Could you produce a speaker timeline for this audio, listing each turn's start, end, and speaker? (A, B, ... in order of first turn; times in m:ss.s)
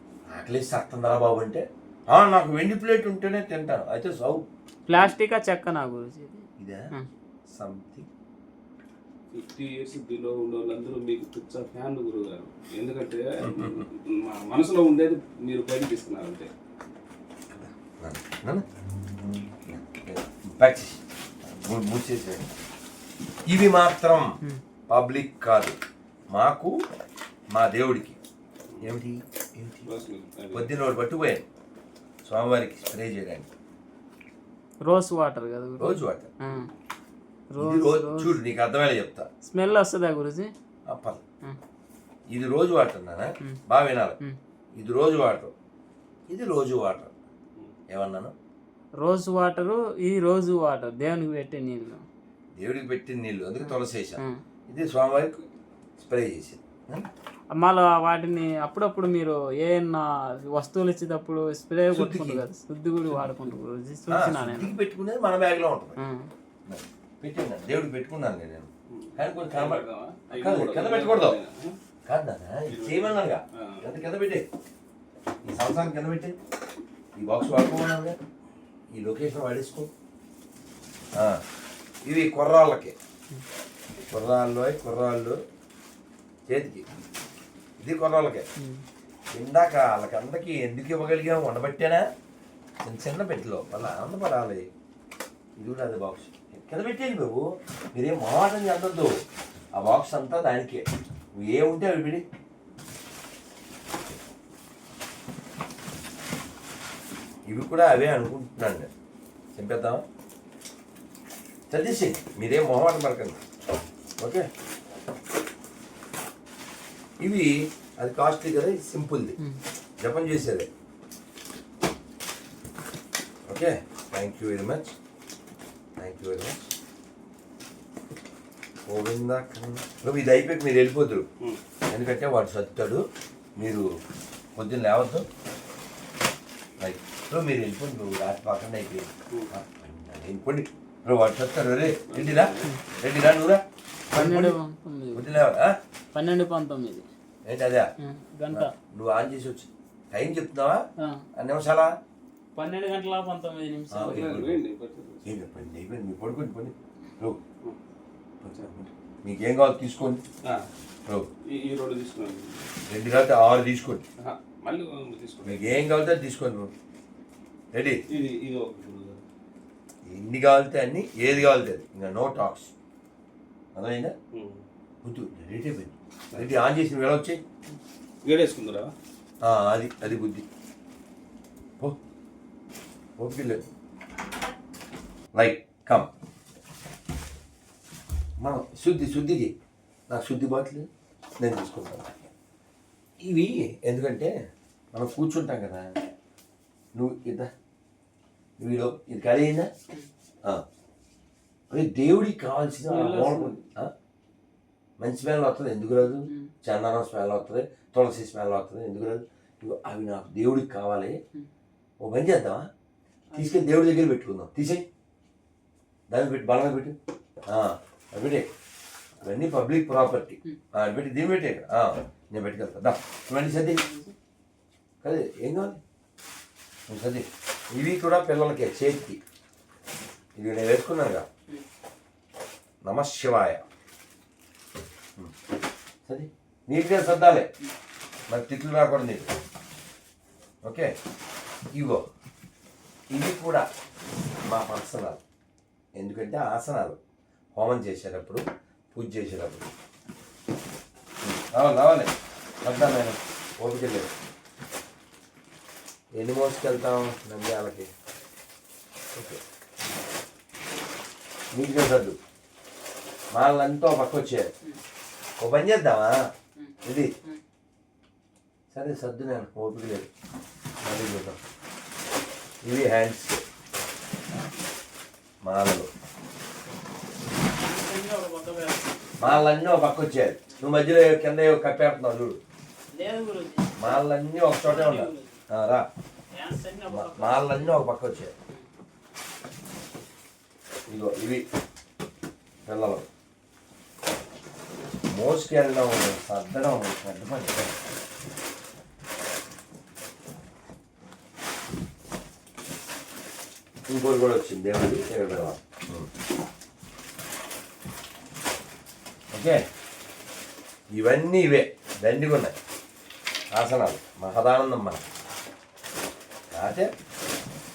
0:00.3-0:04.5 A
0:04.9-0:07.1 B
0:07.5-0:08.1 A
0:09.3-0:16.5 C
0:13.4-0:13.8 A
0:17.5-0:18.6 A
0:19.6-0:22.5 A
0:23.5-0:24.3 A
0:24.9-0:25.8 A
0:26.3-0:26.7 A
0:27.5-0:28.2 A
0:28.8-0:29.9 A
0:29.8-0:30.7 C
0:30.5-0:31.4 A
0:32.2-0:33.5 A
0:34.8-0:36.7 B
0:35.8-0:36.3 A
0:37.5-0:38.4 B
0:37.6-0:39.3 A
0:39.4-0:40.5 B
0:40.9-0:41.2 A
0:42.3-0:44.2 A
0:44.8-0:45.5 A
0:46.3-0:47.1 A
0:47.9-0:48.3 A
0:49.0-0:52.0 B
0:52.6-0:55.4 A
0:53.6-0:54.4 B
0:56.0-0:57.1 A
0:57.5-1:04.8 B
1:01.9-1:02.4 A
1:03.2-1:03.5 C
1:04.1-1:06.0 A
1:06.0-1:06.3 B
1:06.6-1:11.4 A
1:08.9-1:11.8 C
1:12.1-1:14.4 A
1:12.7-1:13.9 C
1:15.4-1:16.3 A
1:17.2-1:18.2 A
1:18.9-1:19.9 A
1:22.0-1:22.9 A
1:24.1-1:25.4 A
1:26.5-1:26.8 A
1:27.8-1:28.4 A
1:29.3-1:32.0 A
1:32.8-1:34.7 A
1:35.6-1:39.1 A
1:39.8-1:42.2 A
1:47.5-1:48.9 A
1:49.5-1:50.0 A
1:51.7-1:53.4 A
1:54.2-1:54.5 A
1:57.2-1:59.4 A
2:00.0-2:00.7 A
2:03.5-2:05.0 A
2:06.0-2:06.7 A
2:08.9-2:11.3 A
2:11.9-2:13.0 A
2:13.6-2:13.9 A
2:14.6-2:15.2 A
2:16.8-2:23.6 A
2:21.9-2:22.7 C
2:24.1-2:24.6 A
2:24.1-2:25.3 B
2:25.1-2:25.7 A
2:26.1-2:27.0 B
2:27.4-2:27.9 A
2:28.0-2:28.7 B
2:28.5-2:30.8 A
2:31.3-2:31.9 A
2:32.6-2:34.4 B
2:33.9-2:34.6 A
2:34.1-2:35.3 C
2:35.2-2:37.4 A
2:38.4-2:40.2 A
2:41.4-2:42.6 C
2:42.9-2:44.0 A
2:44.2-2:45.8 C
2:45.4-2:46.7 A
2:47.7-2:48.0 A
2:48.1-2:49.2 C
2:50.0-2:52.7 A
2:53.7-2:54.1 A
2:54.3-2:54.6 C
2:55.0-2:57.4 A
2:58.2-2:58.9 C
2:59.4-3:00.4 A
3:03.2-3:03.7 A
3:05.3-3:06.1 A
3:08.4-3:09.5 A
3:10.1-3:10.9 A
3:11.4-3:12.1 A
3:13.2-3:14.3 A
3:14.9-3:15.9 A
3:16.9-3:17.5 A
3:18.6-3:19.7 A
3:21.7-3:23.9 A
3:22.9-3:23.6 B
3:25.0-3:31.2 A
3:26.2-3:26.5 B
3:32.0-3:32.6 A
3:33.3-3:33.8 B
3:33.3-3:34.8 A
3:36.1-3:37.0 A
3:37.5-3:38.5 A
3:39.2-3:43.8 A
3:43.6-3:44.1 B
3:45.0-3:45.8 A
3:46.9-3:49.2 A
3:50.4-3:51.3 A
3:52.8-3:53.6 A
3:56.0-3:57.5 A
3:58.3-3:59.3 A
4:00.6-4:00.9 A
4:01.7-4:02.0 A
4:03.1-4:03.6 A
4:04.5-4:05.2 A
4:06.0-4:07.0 A
4:07.6-4:08.4 A
4:08.9-4:09.7 A
4:11.2-4:12.1 A
4:12.6-4:14.1 A
4:16.2-4:17.9 A
4:19.1-4:19.4 A
4:21.5-4:22.2 A
4:23.3-4:24.5 A
4:25.4-4:26.1 A
4:26.6-4:27.4 B
4:28.7-4:30.1 A
4:30.8-4:31.4 A
4:32.6-4:33.4 A
4:35.4-4:35.9 A
4:37.5-4:39.4 B
4:39.2-4:42.4 A
4:40.5-4:40.8 B
4:42.9-4:44.0 B
4:43.8-4:45.8 A
4:44.6-4:45.4 B
4:46.3-4:47.8 B
4:46.9-4:48.3 A
4:50.9-4:51.4 A
4:52.6-4:53.0 A
4:55.1-4:57.7 A
5:03.9-5:06.1 A
5:09.3-5:09.6 A
5:10.9-5:12.5 A
5:13.5-5:15.0 A
5:16.5-5:16.9 A